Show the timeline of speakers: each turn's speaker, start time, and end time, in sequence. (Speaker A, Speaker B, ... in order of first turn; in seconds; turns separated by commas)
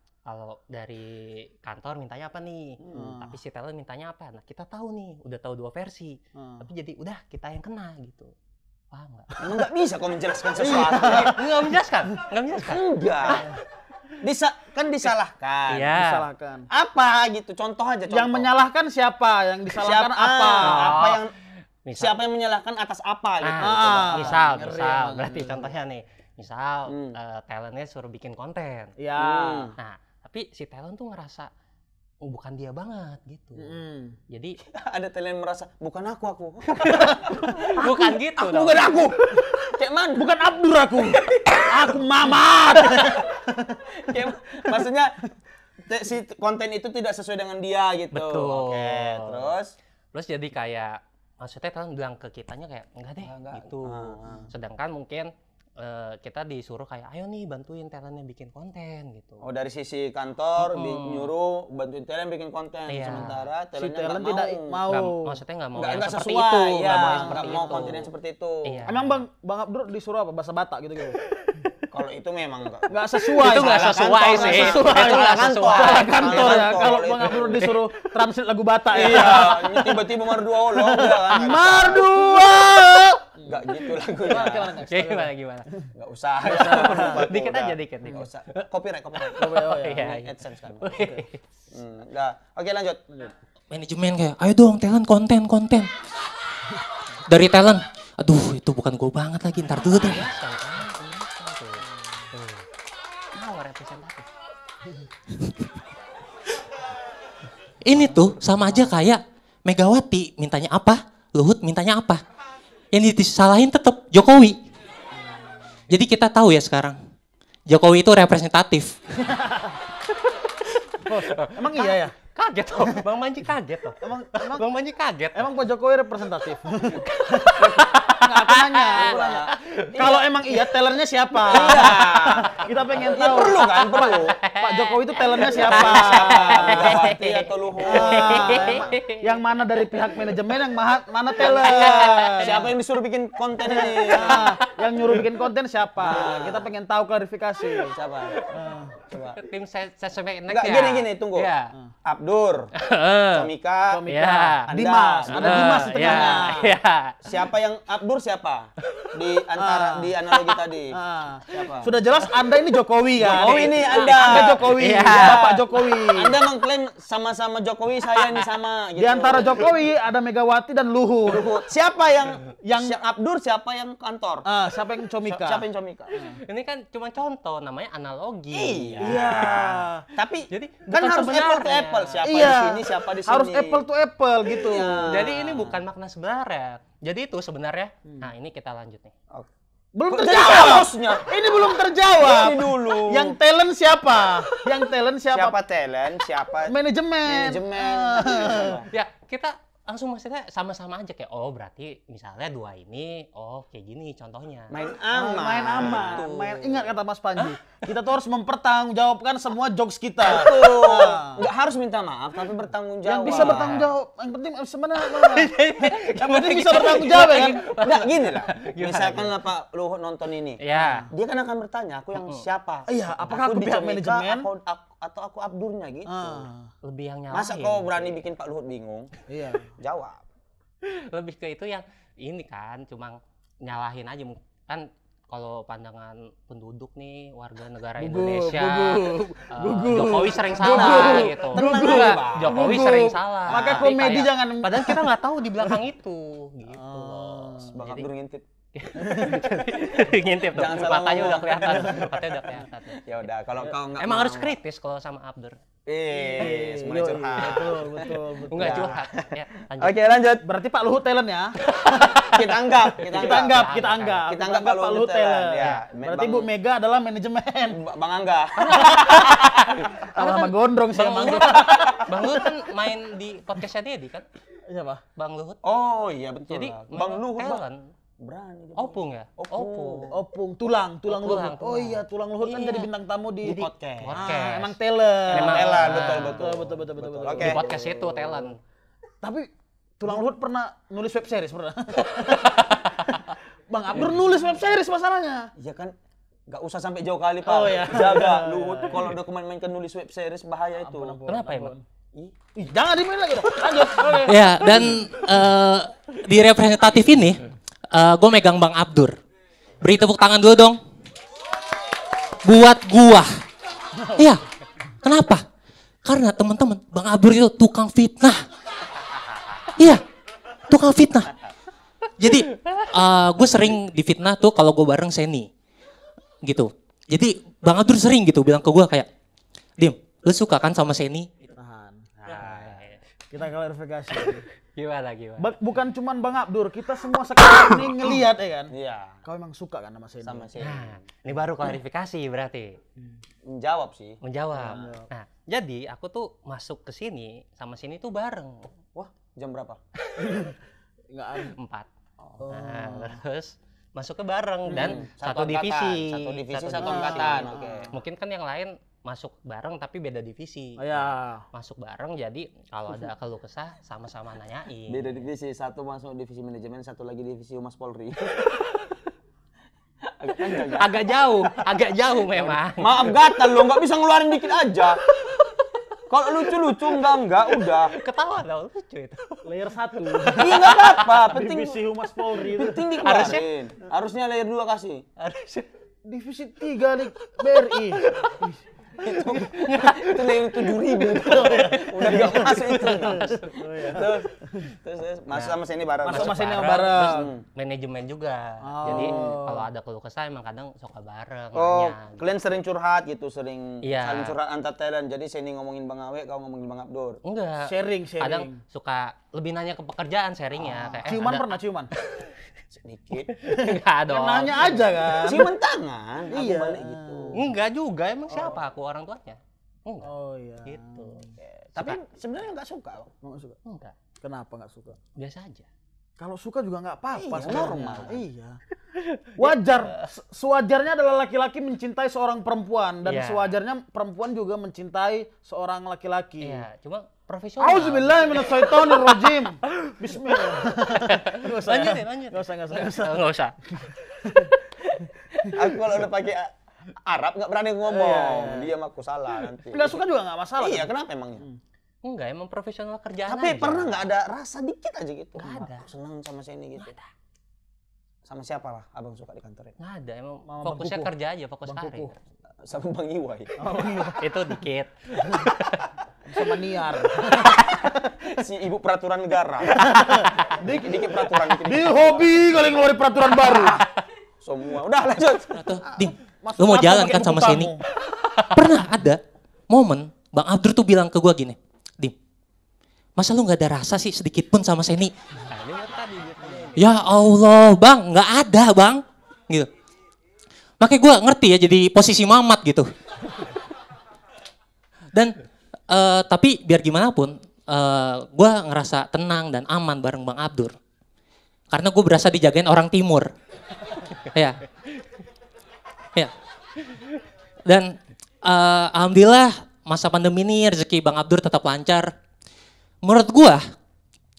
Speaker A: 0.3-8.3, Speaker B: 2.8-3.1, Speaker C: 2.9-3.4, Speaker C: 6.4-6.7, Speaker A: 8.9-9.4, Speaker B: 9.4-11.4, Speaker C: 10.6-11.4, Speaker A: 10.7-13.5, Speaker B: 12.6-13.5, Speaker B: 14.2-15.9, Speaker A: 15.7-16.3, Speaker C: 15.9-16.7, Speaker B: 16.7-18.5, Speaker C: 18.1-21.0, Speaker B: 19.7-21.3, Speaker A: 20.6-21.2, Speaker A: 21.9-22.1, Speaker B: 22.0-24.6, Speaker A: 23.4-28.9, Speaker C: 23.6-25.7, Speaker B: 26.9-27.2, Speaker C: 29.0-29.7, Speaker B: 29.2-29.8, Speaker A: 29.8-31.5, Speaker A: 32.2-34.6, Speaker C: 33.6-34.2, Speaker B: 34.7-40.3, Speaker A: 36.8-37.1, Speaker C: 36.9-38.1, Speaker A: 37.7-39.1, Speaker C: 39.3-44.9, Speaker B: 41.0-42.0, Speaker B: 42.7-43.2, Speaker B: 43.9-45.1, Speaker B: 45.9-49.7, Speaker A: 48.1-49.5, Speaker A: 50.1-59.5, Speaker B: 53.2-54.5, Speaker B: 59.4-64.8, Speaker A: 60.6-61.3, Speaker A: 62.9-63.5, Speaker C: 63.8-65.4, Speaker A: 64.9-68.1, Speaker B: 65.8-68.8, Speaker C: 66.6-68.0, Speaker A: 68.7-69.2, Speaker C: 68.9-71.2, Speaker B: 71.9-77.7, Speaker C: 72.9-80.0, Speaker A: 73.4-78.0, Speaker B: 78.9-82.6, Speaker A: 79.1-79.5, Speaker C: 80.7-85.9, Speaker B: 83.4-84.8, Speaker A: 84.4-85.7, Speaker B: 86.0-91.0, Speaker C: 86.5-87.2, Speaker A: 86.6-88.6, Speaker A: 89.2-91.4, Speaker C: 89.4-90.1, Speaker C: 90.9-91.2, Speaker B: 91.7-93.0, Speaker D: 93.7-95.9, Speaker D: 97.3-100.3, Speaker A: 99.8-102.6, Speaker A: 103.3-104.3, Speaker D: 107.8-112.2, Speaker D: 112.9-114.6, Speaker D: 115.9-117.0, Speaker D: 117.7-119.2, Speaker C: 119.3-119.8, Speaker C: 121.0-122.1, Speaker A: 121.2-125.5, Speaker C: 124.0-124.7, Speaker C: 125.3-127.6, Speaker A: 127.0-129.9, Speaker B: 127.6-127.9, Speaker C: 128.2-129.4, Speaker B: 128.9-130.2, Speaker C: 129.9-137.1, Speaker B: 131.5-134.4, Speaker A: 134.0-139.2, Speaker B: 135.4-139.0, Speaker C: 137.8-142.7, Speaker B: 141.4-144.5, Speaker A: 141.4-142.6, Speaker C: 143.6-147.9, Speaker A: 144.1-144.5, Speaker B: 146.0-146.7, Speaker B: 147.9-148.4, Speaker C: 148.5-148.9, Speaker B: 149.1-149.4, Speaker A: 149.4-151.7, Speaker B: 150.5-151.5, Speaker B: 152.1-152.7, Speaker A: 152.8-153.5, Speaker B: 153.3-154.0, Speaker C: 153.9-156.7, Speaker A: 154.1-154.7, Speaker B: 154.7-156.5, Speaker A: 155.3-157.2, Speaker B: 157.2-160.9, Speaker C: 159.6-160.1, Speaker C: 160.9-166.3, Speaker B: 161.5-161.9, Speaker B: 163.2-169.7, Speaker A: 163.3-165.5, Speaker C: 169.0-171.5, Speaker B: 171.2-174.4, Speaker C: 172.6-173.0, Speaker C: 174.5-176.4, Speaker B: 175.2-176.2, Speaker A: 176.4-179.7, Speaker B: 178.5-183.8, Speaker C: 179.0-180.1, Speaker A: 180.5-182.2, Speaker C: 182.2-185.1, Speaker B: 184.5-185.8, Speaker A: 185.1-189.1, Speaker C: 189.9-195.6, Speaker B: 190.1-191.3, Speaker B: 192.2-193.3, Speaker B: 195.3-196.7, Speaker C: 196.7-198.8, Speaker B: 197.2-198.9, Speaker A: 198.9-204.8, Speaker B: 204.7-206.3, Speaker C: 205.1-211.4, Speaker A: 205.8-206.8, Speaker B: 210.2-213.8, Speaker C: 213.1-217.7, Speaker A: 213.3-213.9, Speaker A: 215.0-219.3, Speaker B: 217.3-220.6, Speaker A: 220.6-221.1, Speaker C: 220.8-221.1, Speaker B: 221.1-226.5, Speaker A: 222.2-222.4, Speaker C: 222.9-224.5, Speaker C: 226.1-226.7, Speaker A: 226.8-228.2, Speaker B: 227.3-229.1, Speaker C: 229.3-229.7, Speaker B: 229.8-230.2, Speaker A: 230.8-248.1, Speaker C: 238.0-245.1, Speaker B: 240.6-242.8, Speaker B: 243.5-243.9, Speaker C: 246.8-247.7, Speaker B: 247.6-248.5, Speaker A: 248.8-253.0, Speaker C: 249.0-249.5, Speaker B: 250.5-252.3, Speaker C: 251.7-252.1, Speaker B: 253.0-254.6, Speaker A: 254.0-255.6, Speaker B: 255.9-259.1, Speaker C: 256.1-259.0, Speaker A: 258.5-260.0, Speaker B: 259.8-260.4, Speaker C: 260.4-262.3, Speaker A: 261.8-262.3, Speaker B: 261.9-263.7, Speaker A: 263.0-264.2, Speaker C: 263.1-267.8, Speaker B: 264.3-266.5, Speaker B: 267.7-269.8, Speaker C: 268.6-269.6, Speaker A: 268.7-274.2, Speaker C: 270.1-272.3, Speaker B: 271.4-272.0, Speaker C: 274.7-275.0, Speaker A: 275.2-275.6, Speaker B: 275.6-277.6, Speaker A: 276.5-277.8, Speaker B: 278.2-280.1, Speaker A: 278.8-280.2, Speaker C: 280.1-287.6, Speaker A: 281.1-282.9, Speaker B: 283.4-284.2, Speaker A: 283.5-284.8, Speaker A: 285.3-286.4, Speaker B: 285.3-288.5, Speaker A: 287.4-288.6, Speaker C: 289.2-295.5, Speaker B: 295.6-295.9, Speaker B: 296.5-301.2, Speaker C: 297.4-299.1, Speaker C: 300.8-301.8, Speaker A: 301.3-301.7, Speaker C: 302.6-305.0, Speaker D: 304.2-309.1, Speaker D: 309.8-310.8, Speaker D: 312.4-313.3, Speaker C: 314.0-314.2, Speaker D: 314.2-314.4, Speaker D: 315.0-315.4, Speaker D: 316.1-318.4, Speaker D: 320.7-321.3, Speaker D: 322.2-325.5, Speaker D: 326.4-329.1, Speaker D: 329.8-331.5, Speaker C: 331.6-332.1, Speaker B: 332.2-332.9, Speaker A: 332.3-333.0, Speaker C: 333.3-334.4, Speaker A: 334.8-335.5, Speaker C: 335.4-338.7, Speaker B: 338.7-339.2, Speaker C: 339.2-340.4, Speaker B: 340.2-341.0, Speaker A: 340.6-342.8, Speaker B: 343.4-344.8, Speaker A: 344.2-348.7, Speaker C: 344.6-345.1, Speaker B: 349.4-349.8, Speaker A: 350.1-350.4, Speaker C: 350.2-350.6, Speaker C: 351.1-351.5, Speaker A: 351.4-351.9, Speaker C: 352.4-353.2, Speaker A: 352.5-365.2, Speaker C: 354.7-355.0, Speaker B: 354.7-357.9, Speaker C: 356.8-357.9, Speaker C: 360.8-361.4, Speaker B: 364.9-368.6, Speaker B: 370.0-371.0, Speaker A: 370.6-373.1, Speaker B: 372.3-375.0, Speaker B: 376.1-377.9, Speaker A: 377.8-379.4, Speaker C: 379.4-383.0, Speaker A: 380.1-381.1, Speaker B: 380.4-381.8, Speaker B: 382.6-385.1, Speaker A: 383.0-383.5, Speaker A: 385.2-385.7, Speaker C: 386.1-388.6, Speaker A: 387.4-388.4, Speaker B: 389.0-397.4, Speaker A: 389.3-393.5, Speaker C: 391.0-394.7, Speaker A: 395.3-402.2, Speaker C: 396.1-397.3, Speaker C: 398.6-399.7, Speaker B: 398.9-399.4, Speaker B: 401.6-407.2, Speaker A: 403.8-404.4, Speaker A: 407.2-412.3, Speaker C: 407.6-408.6, Speaker C: 411.1-411.9, Speaker B: 412.7-413.3, Speaker A: 413.3-414.9, Speaker C: 413.5-415.5, Speaker B: 415.2-417.5, Speaker C: 416.3-417.4, Speaker A: 417.4-420.1, Speaker C: 418.3-418.6, Speaker C: 420.0-421.2, Speaker A: 420.6-421.2, Speaker B: 421.4-423.1, Speaker C: 423.2-423.6, Speaker A: 423.7-423.9, Speaker C: 424.2-425.0, Speaker A: 425.2-425.7, Speaker C: 426.2-428.6, Speaker B: 427.1-428.2, Speaker A: 429.0-430.0, Speaker C: 429.4-436.6, Speaker A: 433.1-433.6, Speaker A: 436.4-439.3, Speaker C: 437.6-444.6, Speaker A: 440.6-443.6, Speaker B: 445.5-446.5, Speaker B: 447.0-450.0, Speaker C: 447.9-448.7, Speaker C: 449.7-450.9, Speaker B: 450.6-451.4, Speaker A: 452.0-454.1, Speaker B: 453.3-456.9, Speaker A: 455.4-455.8, Speaker A: 456.8-457.1, Speaker B: 458.2-459.7, Speaker A: 459.8-462.2, Speaker C: 460.5-461.1, Speaker C: 461.7-462.1, Speaker B: 462.6-463.5, Speaker C: 463.6-464.3, Speaker A: 464.2-465.9, Speaker C: 466.3-468.1, Speaker B: 468.2-472.3, Speaker C: 469.7-473.8, Speaker B: 473.4-473.8, Speaker B: 474.4-475.8, Speaker D: 475.5-477.7, Speaker C: 476.4-477.8, Speaker D: 478.5-482.1, Speaker D: 483.2-485.1, Speaker A: 485.5-486.9, Speaker D: 486.8-489.7, Speaker D: 490.8-492.9, Speaker D: 495.9-500.8, Speaker D: 501.7-503.3, Speaker D: 504.3-504.6, Speaker D: 507.6-512.1, Speaker D: 513.0-513.6